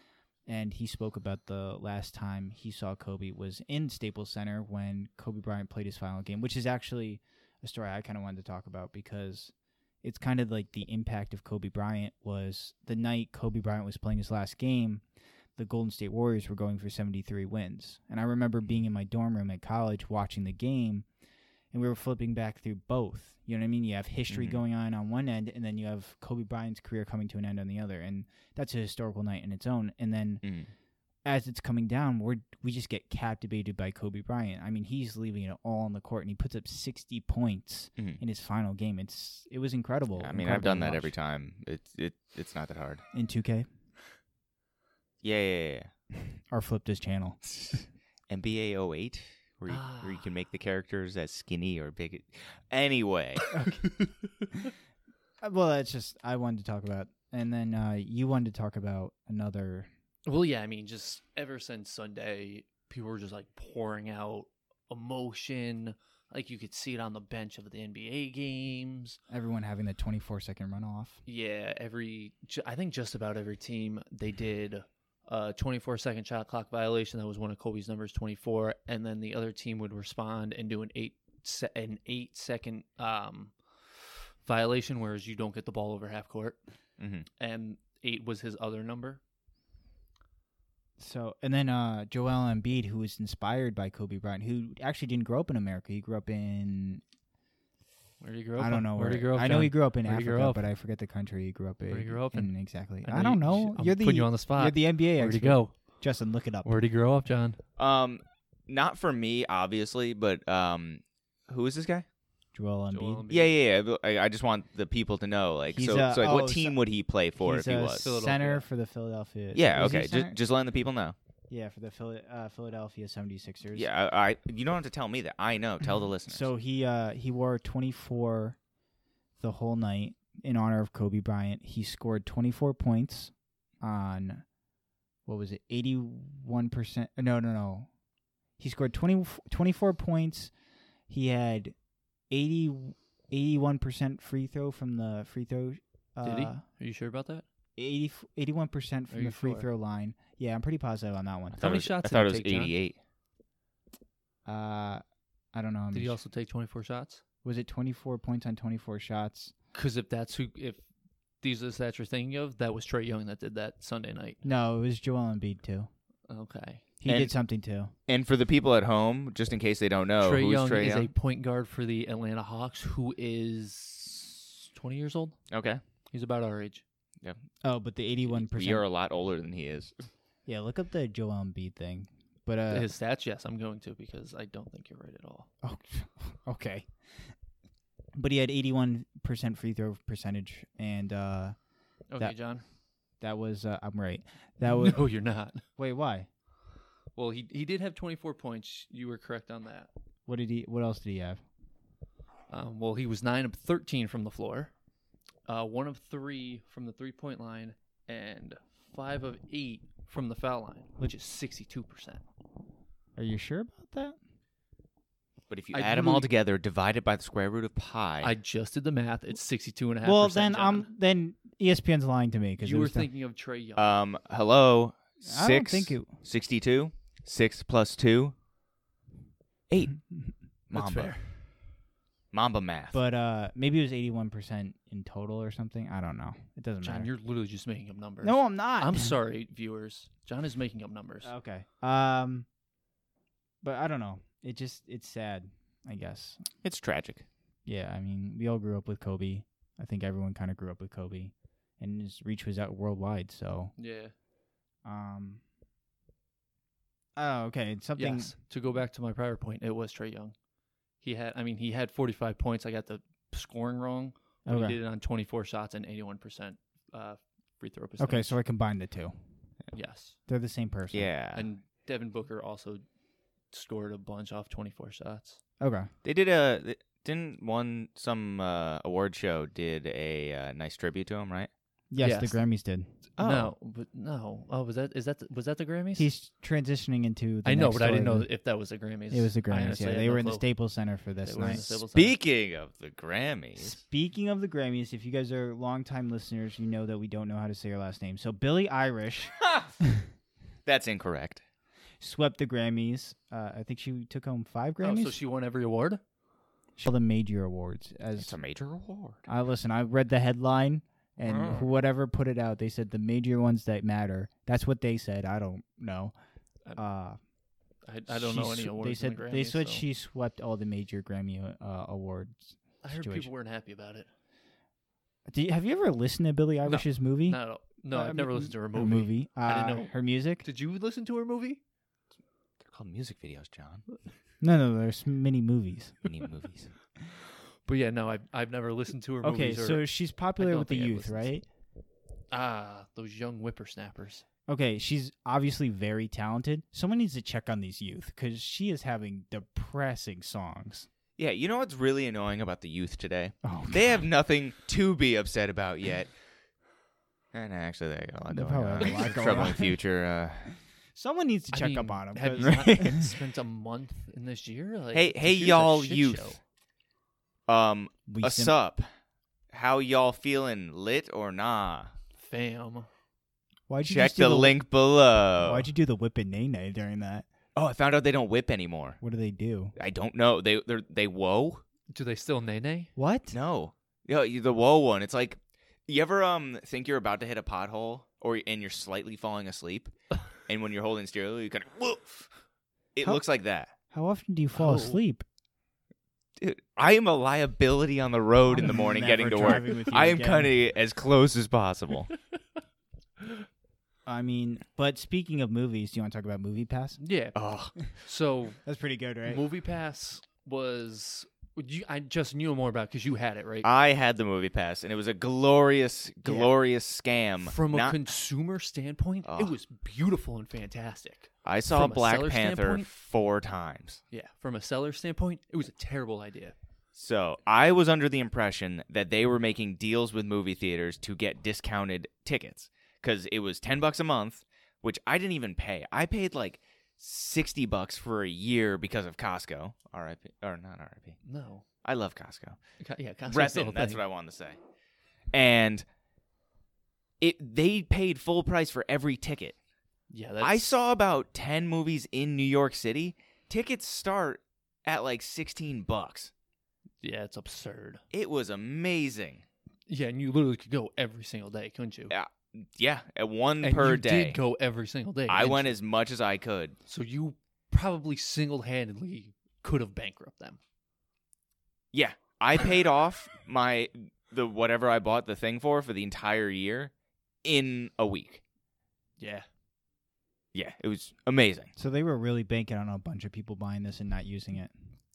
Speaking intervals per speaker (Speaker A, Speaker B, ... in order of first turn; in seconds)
Speaker A: 0.5-15.0, 15.6-21.1, 21.7-30.4, 31.2-41.1, 43.1-43.7, 46.5-47.4, 53.5-54.1, 55.4-59.9, 69.3-71.2, 91.0-97.0, 98.6-106.7, 112.5-113.2, 115.7-116.8, 117.4-120.4, 121.5-123.9, 126.3-128.6, 129.4-134.4, 135.3-137.9, 138.6-140.5, 141.1-141.8, 142.3-146.6, 147.8-151.6, 154.4-155.0, 155.5-156.2, 157.4-159.5, 164.4-165.9, 167.0-167.9, 177.6-178.9, 180.5-182.9, 185.6-186.9, 188.2-191.6, 193.2-195.0, 195.8-196.3, 200.3-201.4, 213.2-214.2, 220.0-223.1, 225.2-226.2, 232.9-237.1, 238.2-239.1, 241.2-242.5, 243.6-246.5, 247.7-253.7, 254.8-255.4, 257.2-258.3, 264.5-264.8, 268.0-269.2, 270.3-271.1, 275.6-275.9, 281.9-282.9, 285.9-288.3, 289.1-291.8, 293.6-300.0, 302.0-305.2, 306.8-308.4, 309.3-316.1, 316.8-317.2, 318.1-323.3, 325.3-327.4, 327.9-330.5, 334.4-336.0, 339.2-341.4, 344.5-350.9, 353.4-354.0, 358.3-359.8, 361.0-363.1, 368.1-368.6, 373.7-374.6, 375.4-377.3, 379.0-379.8, 383.0-383.4, 393.9-395.2, 398.5-400.6, 404.1-407.0, 408.6-409.4, 481.8-484.7
Speaker B: 24.3-24.6, 30.4-30.7, 40.2-43.0, 45.2-45.9, 47.5-53.4, 87.0-87.3, 107.8-112.1, 113.3-118.1, 119.5-121.2, 123.8-126.5, 151.6-153.0, 167.1-167.3, 168.1-171.1, 175.5-175.8, 178.3-180.1, 215.5-218.3, 223.8-228.3, 229.7-230.0, 230.7-231.1, 232.3-233.0, 246.6-247.2, 270.9-271.5, 276.0-281.5, 283.2-283.5, 291.9-293.8, 299.4-299.7, 300.7-301.4, 308.2-309.3, 332.6-333.8, 336.0-336.7, 351.2-356.1, 357.3-360.5, 364.9-366.4, 367.5-368.9, 369.5-371.9, 373.8-375.7, 377.6-379.0, 379.8-381.6, 383.3-392.3, 392.9-393.7, 396.4-402.1, 407.4-407.7, 413.6-418.0, 419.2-419.6, 421.4-424.0, 426.9-441.2, 441.8-442.6, 443.2-444.6, 445.3-445.9, 447.2-449.6, 450.4-456.3, 458.1-459.4, 462.1-464.4, 465.3-466.8, 471.9-476.9, 477.4-478.4, 480.5-481.7
Speaker C: 49.7-50.3, 60.3-69.2, 71.3-83.5, 84.4-86.6, 87.4-89.2, 98.2-100.7, 101.9-105.7, 106.6-107.6, 112.9-113.6, 117.9-118.7, 146.2-147.4, 149.1-149.7, 151.6-152.8, 155.9-157.2, 159.7-160.8, 161.4-164.4, 166.3-166.8, 170.2-175.4, 176.1-176.8, 182.7-185.5, 192.1-192.6, 194.6-195.6, 197.2-199.9, 202.5-204.7, 205.5-212.2, 215.7-216.3, 218.2-220.9, 222.6-224.0, 230.7-231.4, 236.8-241.3, 253.8-254.1, 258.0-260.4, 261.0-268.4, 269.7-270.2, 271.3-272.8, 273.5-275.4, 282.0-282.4, 283.2-286.1, 287.4-290.5, 291.2-292.1, 304.8-306.0, 311.2-311.8, 317.9-319.9, 322.8-324.1, 326.7-331.6, 337.7-341.3, 342.3-344.2, 358.8-359.1, 361.5-366.4, 372.2-372.9, 381.9-382.9, 394.6-395.0, 407.0-408.6, 409.3-413.7, 416.2-416.5, 417.4-422.9, 424.1-426.6, 441.2-441.7, 442.8-444.0, 450.1-450.7, 457.0-458.0, 459.9-462.1, 463.6-465.8, 466.9-470.6, 479.2-479.5